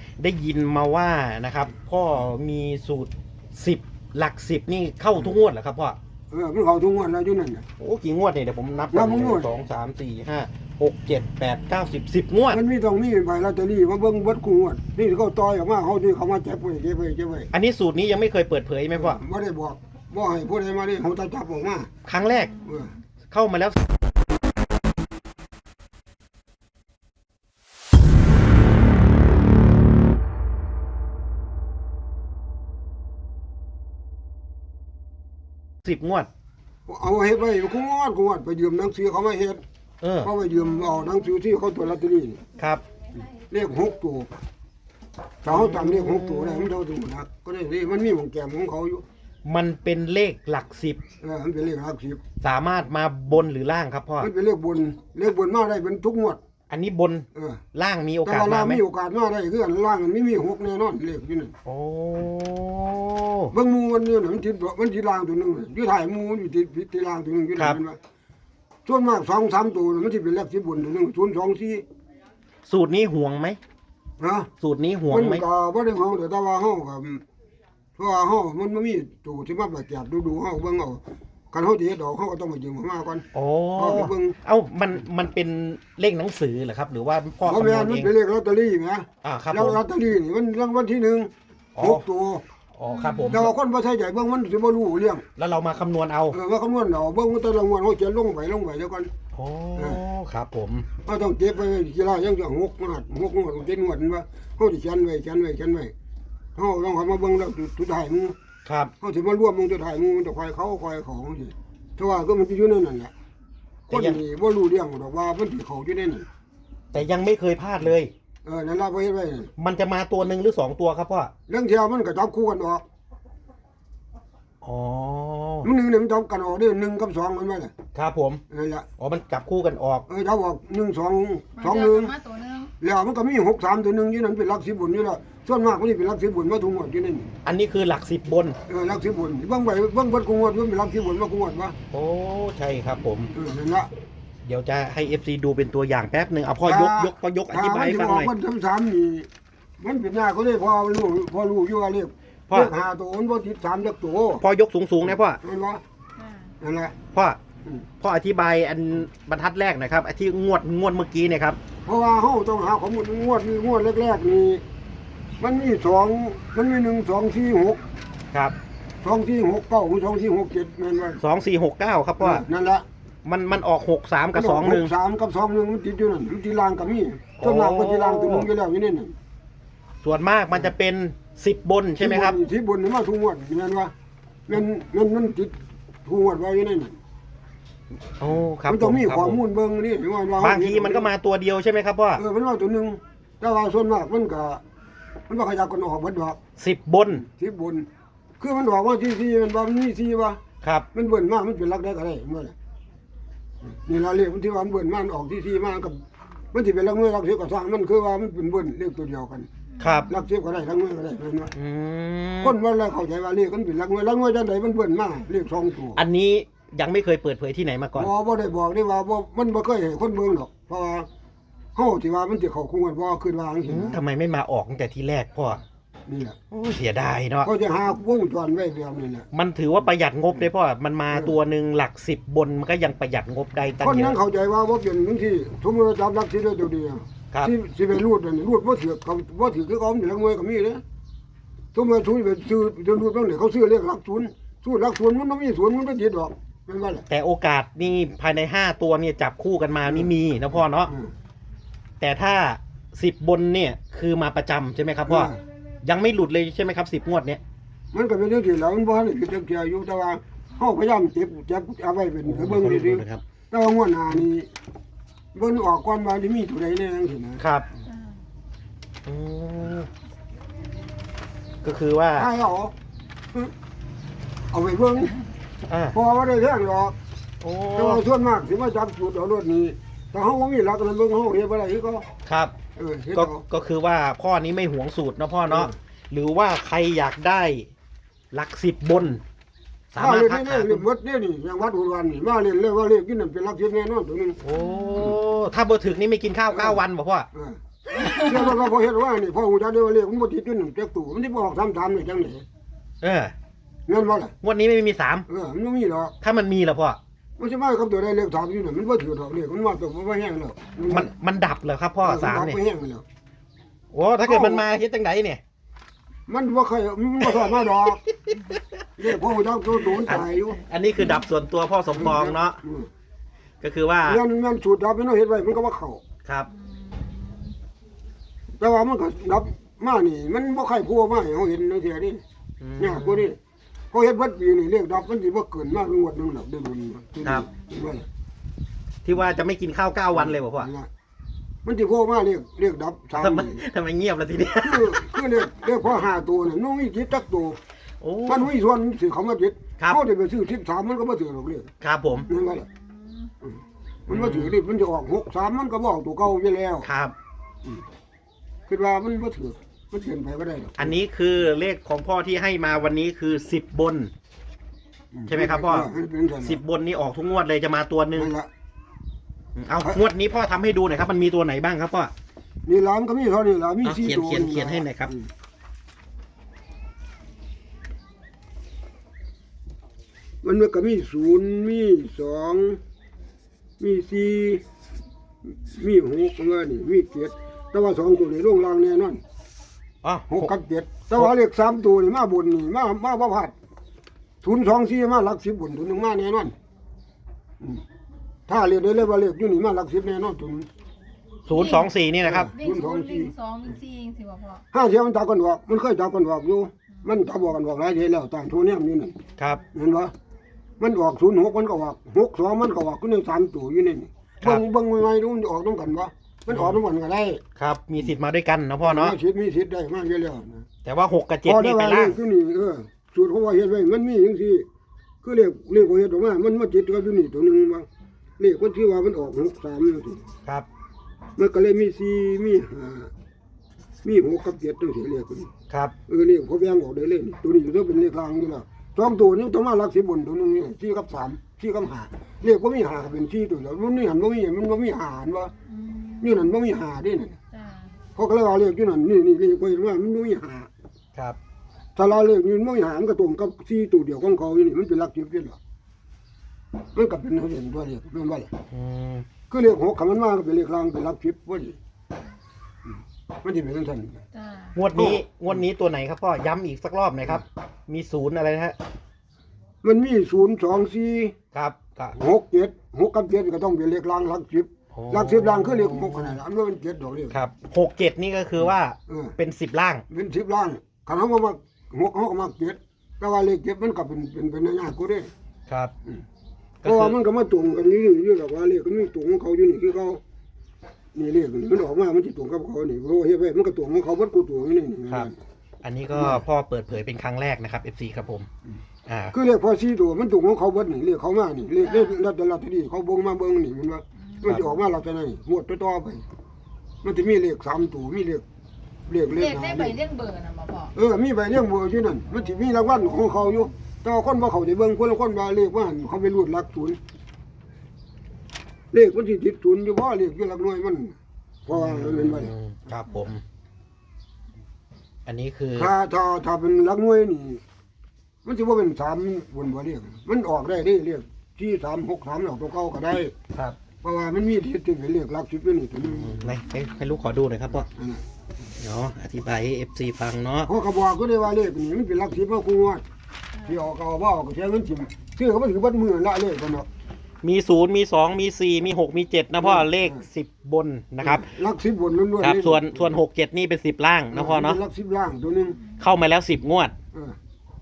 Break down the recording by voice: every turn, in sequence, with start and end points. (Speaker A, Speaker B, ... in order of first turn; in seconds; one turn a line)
Speaker A: 0.2-6.0
Speaker B: 6.3-7.6
Speaker A: 7.8-12.6
Speaker B: 8.9-9.5
Speaker B: 12.5-17.5
Speaker A: 17.5-19.2
Speaker B: 18.9-21.9
Speaker A: 22.1-22.6
Speaker B: 22.5-22.9
Speaker A: 23.3-23.8
Speaker A: 35.8-36.3
Speaker B: 36.9-39.6
Speaker A: 40.0-40.3
Speaker B: 40.2-42.4
Speaker A: 42.6-42.8
Speaker B: 43.5-44.3
Speaker B: 45.4-49.0
Speaker A: 45.5-46.7
Speaker A: 49.5-51.0
Speaker B: 51.2-52.2
Speaker A: 52.4-54.3
Speaker B: 54.2-56.4
Speaker A: 56.7-58.8
Speaker B: 57.3-57.6
Speaker B: 58.2-61.5
Speaker A: 61.6-63.5
Speaker B: 63.5-68.0
Speaker B: 68.8-71.8
Speaker A: 72.7-73.6
Speaker B: 74.2-74.5
Speaker A: 74.6-75.4
Speaker B: 75.1-77.2
Speaker B: 78.0-81.0
Speaker B: 81.5-84.4
Speaker A: 83.3-88.1
Speaker B: 87.5-92.4
Speaker A: 89.2-89.8
Speaker A: 91.8-92.0
Speaker A: 92.7-93.5
Speaker C: 92.9-93.4
Speaker B: 93.3-95.3
Speaker A: 95.4-96.4
Speaker B: 96.3-99.1
Speaker A: 99.3-100.9
Speaker B: 99.8-100.0
Speaker B: 101.0-105.9
Speaker B: 106.6-108.3
Speaker A: 108.7-108.9
Speaker B: 109.0-113.1
Speaker B: 113.9-116.3
Speaker A: 113.9-114.2
Speaker A: 116.9-118.1
Speaker B: 118.5-119.5
Speaker A: 119.6-121.3
Speaker B: 121.5-122.8
Speaker A: 124.6-125.7
Speaker B: 125.6-127.7
Speaker A: 127.9-128.4
Speaker B: 128.5-128.9
Speaker A: 129.0-130.1
Speaker B: 130.1-132.2
Speaker C: 131.6-132.7
Speaker B: 132.8-137.3
Speaker A: 137.4-138.6
Speaker B: 138.7-141.8
Speaker A: 141.9-143.3
Speaker B: 143.3-143.9
Speaker A: 144.4-148.3
Speaker B: 146.6-149.3
Speaker B: 149.8-154.4
Speaker A: 154.4-155.4
Speaker B: 155.4-155.8
Speaker C: 156.2-156.5
Speaker B: 156.6-157.0
Speaker A: 157.1-157.4
Speaker A: 158.0-161.6
Speaker B: 161.9-164.6
Speaker B: 165.4-167.8
Speaker B: 169.0-171.2
Speaker A: 171.2-172.4
Speaker B: 172.2-172.8
Speaker A: 173.2-174.9
Speaker B: 174.3-179.1
Speaker A: 177.4-178.5
Speaker A: 180.0-182.4
Speaker B: 182.0-183.9
Speaker B: 184.5-187.0
Speaker A: 188.2-189.4
Speaker B: 188.7-191.1
Speaker A: 190.4-192.2
Speaker B: 192.2-194.6
Speaker B: 195.3-196.4
Speaker A: 196.6-197.2
Speaker B: 197.2-197.9
Speaker B: 198.4-200.4
Speaker A: 200.6-200.9
Speaker B: 200.9-202.5
Speaker B: 203.7-206.0
Speaker B: 206.5-209.5
Speaker A: 209.8-210.1
Speaker B: 210.1-211.5
Speaker A: 211.5-212.6
Speaker B: 212.4-216.0
Speaker A: 216.0-218.1
Speaker B: 217.9-221.1
Speaker B: 221.8-224.0
Speaker A: 223.7-225.6
Speaker B: 226.1-226.4
Speaker A: 226.5-227.5
Speaker B: 227.4-229.3
Speaker A: 229.3-234.2
Speaker B: 233.8-240.8
Speaker B: 241.7-247.1
Speaker A: 247.1-250.9
Speaker A: 252.0-257.4
Speaker B: 255.1-255.4
Speaker B: 257.9-264.5
Speaker A: 262.3-263.2
Speaker B: 265.3-267.4
Speaker A: 267.4-267.7
Speaker A: 269.1-269.9
Speaker A: 271.6-272.3
Speaker B: 272.1-272.7
Speaker B: 274.5-275.2
Speaker A: 275.7-276.0
Speaker B: 275.9-277.0
Speaker A: 277.4-278.0
Speaker B: 277.8-282.1
Speaker A: 282.2-282.5
Speaker B: 282.8-283.4
Speaker A: 283.1-287.7
Speaker B: 285.5-285.7
Speaker A: 288.3-289.2
Speaker A: 289.9-290.9
Speaker B: 290.0-294.4
Speaker A: 294.4-297.3
Speaker C: 294.6-295.1
Speaker B: 296.5-296.8
Speaker B: 297.3-302.4
Speaker A: 297.9-298.5
Speaker A: 303.0-303.3
Speaker B: 303.9-304.3
Speaker A: 304.4-305.3
Speaker B: 305.3-306.1
Speaker A: 306.2-307.0
Speaker B: 307.4-311.1
Speaker A: 310.9-312.6
Speaker B: 312.0-313.0
Speaker A: 313.9-315.4
Speaker B: 314.2-314.6
Speaker B: 316.3-318.0
Speaker A: 317.3-318.6
Speaker B: 319.0-320.6
Speaker A: 319.9-322.6
Speaker B: 321.9-322.9
Speaker A: 323.6-324.2
Speaker B: 324.1-326.0
Speaker A: 326.2-326.5
Speaker C: 326.6-327.5
Speaker B: 328.6-332.2
Speaker A: 332.6-333.3
Speaker B: 332.8-333.4
Speaker B: 333.9-338.1
Speaker A: 339.1-340.7
Speaker B: 340.1-340.9
Speaker B: 341.6-343.6
Speaker A: 343.2-345.1
Speaker B: 344.6-347.6
Speaker A: 348.0-348.5
Speaker B: 348.3-351.7
Speaker A: 351.8-352.3
Speaker B: 352.3-352.7
Speaker C: 353.0-353.3
Speaker B: 353.4-356.9
Speaker A: 354.1-354.6
Speaker A: 356.8-357.1
Speaker B: 358.7-360.9
Speaker A: 360.8-364.1
Speaker B: 365.1-366.6
Speaker A: 365.3-365.9
Speaker A: 366.4-368.3
Speaker B: 368.1-368.5
Speaker A: 369.6-372.1
Speaker B: 372.7-375.3
Speaker A: 373.8-375.1
Speaker B: 380.4-382.8
Speaker B: 383.8-384.6
Speaker B: 385.6-389.2
Speaker A: 390.0-390.5
Speaker B: 390.3-393.5
Speaker B: 394.4-396.6
Speaker B: 398.5-400.7
Speaker A: 401.5-402.5
Speaker C: 401.5-401.9
Speaker B: 402.2-403.3
Speaker C: 402.5-404.6
Speaker B: 404.7-409.2
Speaker B: 409.7-410.1
Speaker B: 410.8-417.4
Speaker A: 416.5-416.8
Speaker A: 417.6-419.2
Speaker B: 418.8-420.7
Speaker A: 420.8-422.2
Speaker B: 421.5-424.7
Speaker B: 425.2-427.9
Speaker B: 428.4-430.2
Speaker B: 431.4-433.1
Speaker B: 434.0-435.5
Speaker A: 435.7-435.9
Speaker B: 436.1-445.5
Speaker C: 445.7-446.4
Speaker B: 446.2-447.4
Speaker C: 447.5-447.9
Speaker B: 448.2-450.7
Speaker B: 452.0-455.6
Speaker B: 456.9-458.5
Speaker A: 458.7-459.3
Speaker B: 459.5-461.8
Speaker B: 462.9-464.2
Speaker C: 464.4-464.7
Speaker A: 464.8-468.8
Speaker B: 464.9-465.6
Speaker B: 469.8-471.4
Speaker A: 471.5-472.2
Speaker B: 472.1-477.4
Speaker A: 474.9-476.4
Speaker A: 477.3-480.1
Speaker B: 479.1-479.4
Speaker B: 480.1-485.3
Speaker A: 485.7-485.9
Speaker A: 486.8-487.2
Speaker B: 486.8-490.2
Speaker B: 491.1-495.4
Speaker A: 495.8-498.5
Speaker B: 496.1-496.4
Speaker A: 499.1-499.4
Speaker B: 499.3-506.2
Speaker C: 501.8-502.2
Speaker C: 504.3-504.6
Speaker B: 507.0-508.4
Speaker B: 509.1-510.0
Speaker C: 509.3-510.9
Speaker B: 510.9-517.0
Speaker B: 518.9-521.1
Speaker B: 521.7-522.5
Speaker A: 521.7-523.4
Speaker A: 525.3-525.9
Speaker B: 525.8-527.6
Speaker B: 528.4-533.3
Speaker B: 534.0-536.5
Speaker A: 536.0-537.9
Speaker B: 537.9-538.2
Speaker A: 538.8-540.7
Speaker B: 540.7-543.0
Speaker B: 543.6-546.9
Speaker A: 547.4-551.5
Speaker B: 549.6-550.2
Speaker B: 551.2-553.2
Speaker A: 552.4-554.8
Speaker B: 554.3-555.8
Speaker A: 556.0-556.9